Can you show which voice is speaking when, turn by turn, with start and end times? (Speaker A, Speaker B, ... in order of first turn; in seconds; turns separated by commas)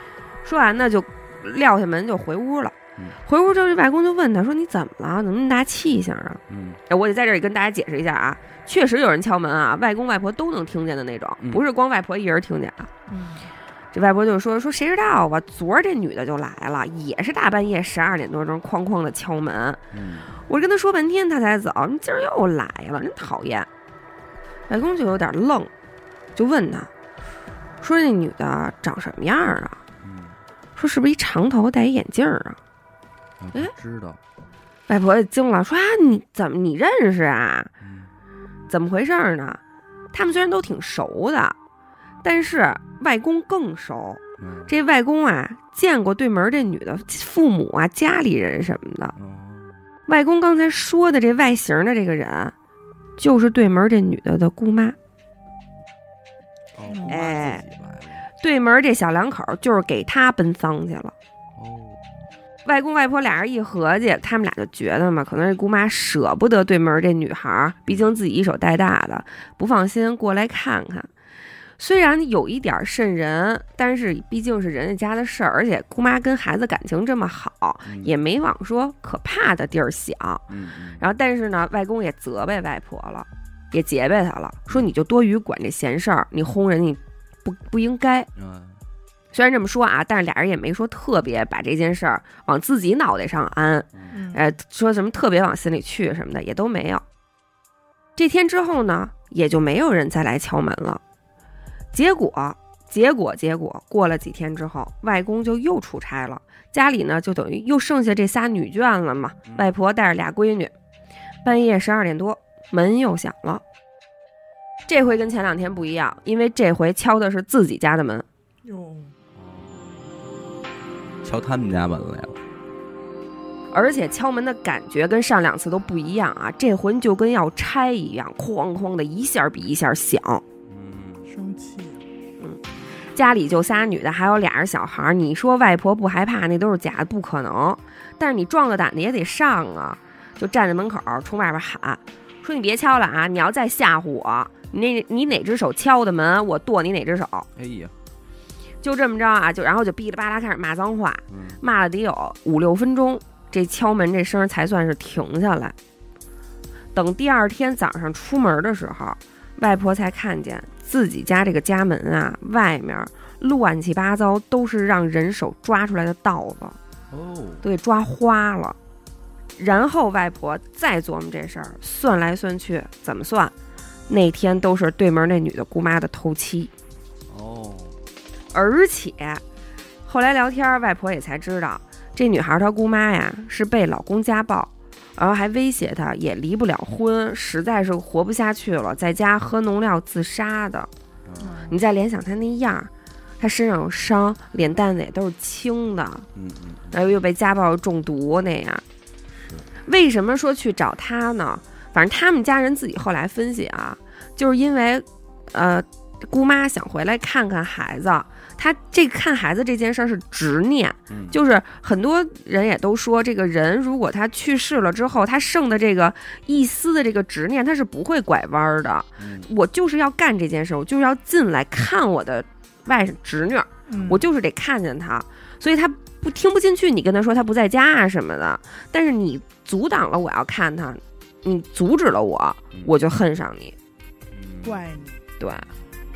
Speaker A: 0.4-12.9, Speaker B: 6.5-6.8, Speaker B: 11.4-11.6, Speaker C: 13.1-13.4, Speaker A: 13.9-19.8, Speaker B: 19.9-20.3, Speaker A: 20.4-23.7, Speaker A: 24.7-25.7, Speaker A: 26.3-26.9, Speaker A: 27.8-29.8, Speaker B: 30.0-30.3, Speaker A: 30.8-32.6, Speaker B: 33.4-34.2, Speaker A: 34.9-37.7, Speaker B: 37.8-38.1, Speaker A: 38.7-39.6, Speaker A: 40.1-41.5, Speaker A: 42.2-49.1, Speaker B: 44.4-44.7, Speaker B: 49.1-49.8, Speaker A: 50.1-52.5, Speaker A: 53.2-55.0, Speaker B: 56.7-58.2, Speaker C: 56.9-57.2, Speaker A: 57.1-57.6, Speaker A: 58.4-61.1, Speaker B: 61.6-62.0, Speaker A: 62.6-71.1, Speaker A: 71.8-88.3, Speaker B: 77.8-78.1, Speaker B: 80.5-81.0, Speaker B: 88.3-88.8, Speaker A: 89.3-97.0, Speaker C: 94.1-94.4, Speaker A: 98.2-101.0, Speaker A: 101.9-110.7, Speaker B: 109.5-109.7, Speaker A: 111.4-113.6, Speaker A: 114.9-118.2, Speaker C: 118.6-119.1, Speaker B: 119.3-120.1, Speaker B: 121.2-122.4, Speaker A: 123.7-130.4, Speaker B: 130.7-131.2, Speaker C: 131.3-132.0, Speaker A: 133.1-147.5, Speaker B: 147.6-147.9, Speaker A: 148.8-155.8, Speaker B: 151.3-151.6, Speaker A: 156.9-166.8, Speaker B: 167.1-167.6, Speaker A: 167.6-168.8, Speaker A: 169.6-173.5, Speaker A: 174.1-176.7, Speaker B: 177.3-177.9, Speaker A: 178.5-179.4, Speaker A: 180.0-190.9, Speaker B: 191.2-191.5, Speaker C: 191.4-191.7, Speaker A: 191.7-196.2, Speaker B: 196.3-196.9, Speaker A: 196.9-198.8, Speaker B: 199.3-199.7, Speaker A: 199.8-233.7, Speaker B: 211.1-211.4, Speaker B: 219.2-219.5, Speaker C: 223.9-224.2, Speaker B: 234.3-234.8, Speaker C: 234.6-235.2, Speaker A: 235.4-235.7